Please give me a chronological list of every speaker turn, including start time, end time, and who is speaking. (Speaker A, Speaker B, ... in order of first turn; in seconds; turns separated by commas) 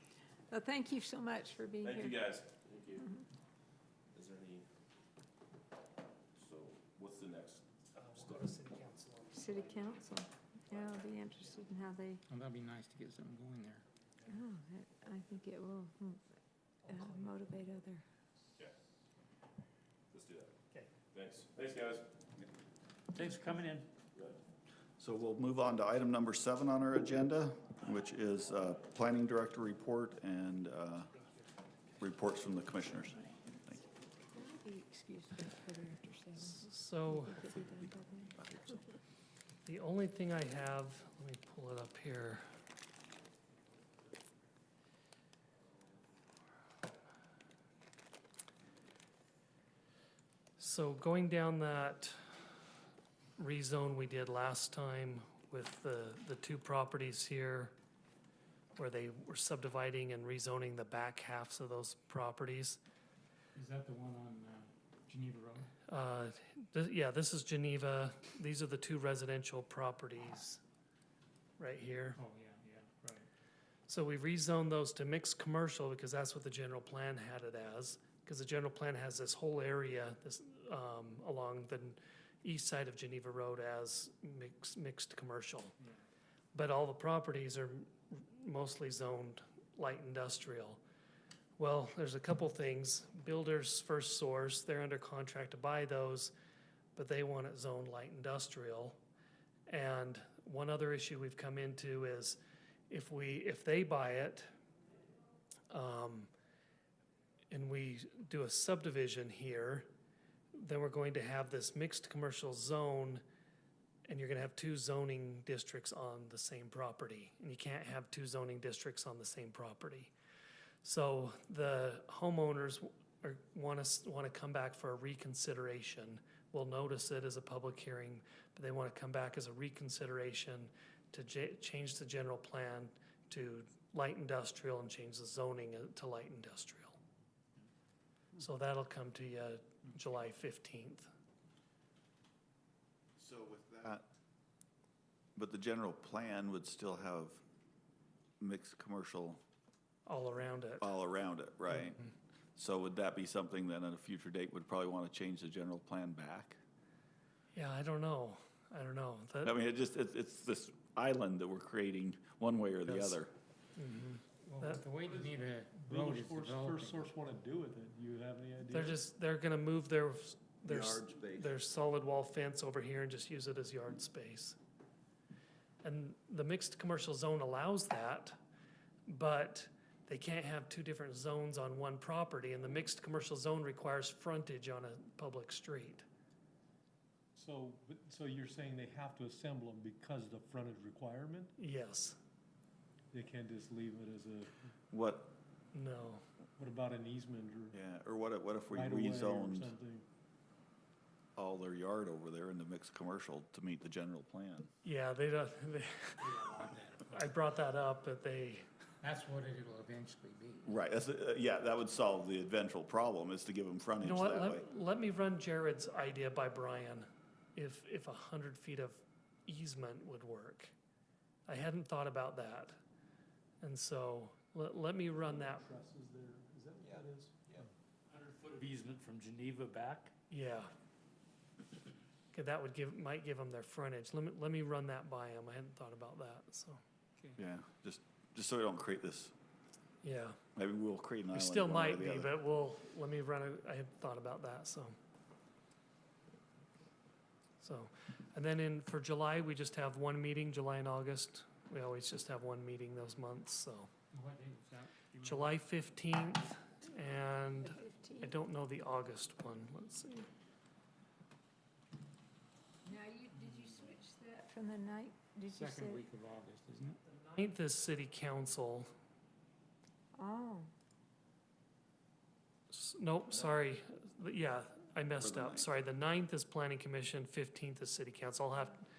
Speaker A: 0.5-2.2, Speaker B: 1.8-3.1, Speaker B: 4.1-4.7, Speaker B: 6.4-8.5, Speaker C: 8.0-10.3, Speaker A: 9.3-12.2, Speaker C: 10.8-11.6, Speaker D: 12.3-13.9, Speaker A: 14.3-16.2, Speaker C: 16.9-17.4, Speaker A: 16.9-18.0, Speaker B: 20.1-20.5, Speaker B: 21.1-22.1, Speaker E: 23.1-23.9, Speaker F: 25.0-31.1, Speaker C: 31.1-31.5, Speaker F: 32.0-33.8, Speaker A: 34.3-38.3, Speaker C: 36.4-37.5, Speaker C: 39.6-42.4, Speaker C: 50.6-52.2, Speaker C: 53.4-57.7, Speaker C: 58.8-62.8, Speaker D: 63.5-65.7, Speaker C: 65.9-70.6, Speaker C: 71.6-72.2, Speaker D: 72.2-73.3, Speaker C: 73.9-85.8, Speaker C: 86.5-90.8, Speaker C: 91.6-96.3, Speaker C: 96.9-99.0, Speaker C: 99.7-102.4, Speaker C: 102.9-104.5, Speaker C: 105.7-106.3, Speaker C: 107.5-109.9, Speaker C: 110.5-113.2, Speaker C: 114.1-120.1, Speaker C: 120.8-137.0, Speaker C: 138.4-141.1, Speaker F: 143.2-144.1, Speaker F: 145.4-147.4, Speaker F: 148.4-149.4, Speaker C: 150.1-150.9, Speaker F: 150.8-152.0, Speaker F: 152.6-156.6, Speaker C: 157.5-159.6, Speaker F: 159.4-163.3, Speaker C: 162.9-163.2, Speaker C: 163.8-164.8, Speaker D: 164.5-167.1, Speaker G: 165.1-169.0, Speaker C: 168.7-174.6, Speaker F: 170.7-171.5, Speaker C: 175.8-178.4, Speaker C: 179.1-186.1, Speaker G: 187.3-191.5, Speaker C: 191.6-192.2, Speaker G: 193.1-194.7, Speaker F: 194.9-195.3, Speaker C: 195.7-196.2, Speaker G: 196.6-197.8, Speaker F: 197.7-199.7, Speaker G: 198.7-200.1, Speaker F: 201.4-204.7, Speaker C: 204.8-206.3, Speaker D: 206.2-207.3, Speaker C: 207.1-208.7, Speaker D: 209.0-210.8, Speaker F: 210.7-214.7, Speaker C: 214.0-220.7, Speaker C: 221.5-222.8, Speaker C: 223.6-225.7, Speaker G: 225.2-227.7, Speaker E: 228.1-230.1, Speaker C: 230.3-230.7, Speaker C: 232.3-236.8, Speaker F: 237.4-239.3, Speaker C: 240.0-240.4, Speaker F: 240.6-242.3, Speaker C: 241.3-245.0, Speaker C: 247.6-253.9, Speaker D: 254.1-255.6, Speaker C: 255.2-260.3, Speaker A: 257.6-258.3, Speaker A: 262.8-266.0, Speaker D: 263.3-263.9, Speaker D: 265.5-267.0, Speaker C: 267.1-268.9, Speaker A: 270.2-270.7, Speaker C: 272.7-278.8, Speaker F: 275.2-275.7